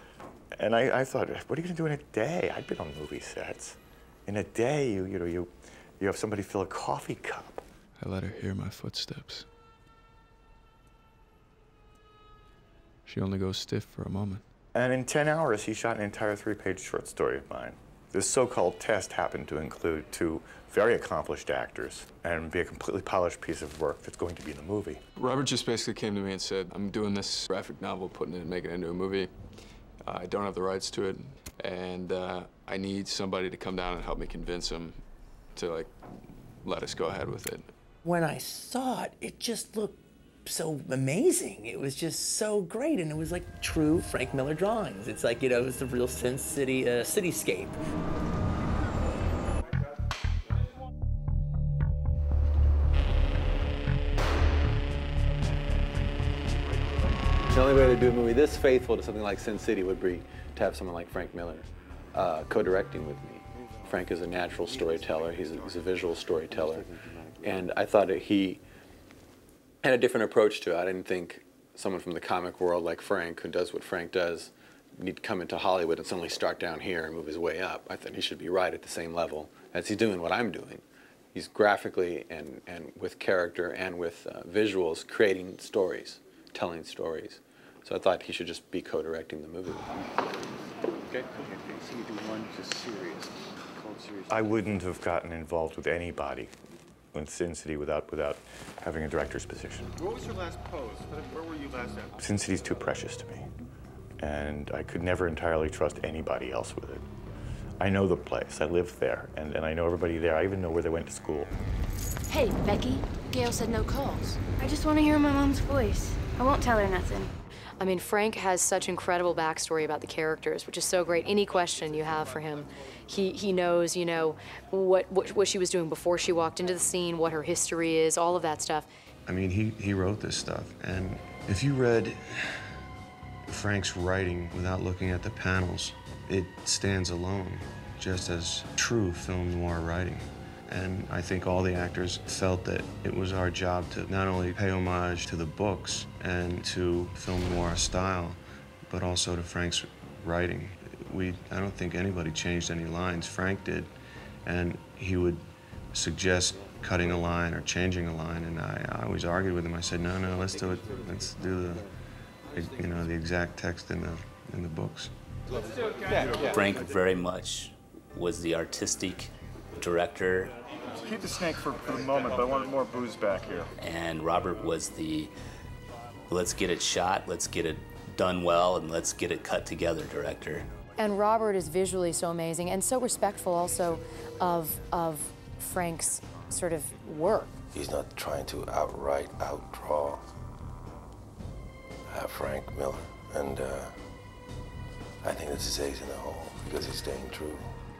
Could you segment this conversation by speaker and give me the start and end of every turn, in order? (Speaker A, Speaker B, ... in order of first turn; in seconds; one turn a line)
Speaker A: 0.6-7.6
Speaker B: 8.0-9.4
Speaker B: 13.1-14.4
Speaker A: 14.7-25.0
Speaker B: 25.2-29.3
Speaker B: 30.1-35.0
Speaker B: 35.6-35.9
Speaker B: 36.6-37.7
Speaker C: 38.0-47.8
Speaker D: 57.5-66.9
Speaker D: 67.4-68.6
Speaker D: 69.8-90.1
Speaker A: 94.3-96.5
Speaker A: 97.1-99.9
Speaker A: 102.2-103.5
Speaker A: 104.2-107.1
Speaker A: 107.8-111.5
Speaker E: 112.3-117.3
Speaker F: 117.8-128.9
Speaker G: 129.3-132.7
Speaker G: 133.5-153.9
Speaker G: 154.5-161.9
Speaker G: 162.5-165.1
Speaker H: 166.3-170.5
Speaker I: 171.0-173.7
Speaker H: 173.8-175.3
Speaker H: 176.3-180.7
Speaker F: 181.0-187.5
Speaker J: 187.7-190.2
Speaker J: 192.1-194.0
Speaker J: 195.2-197.7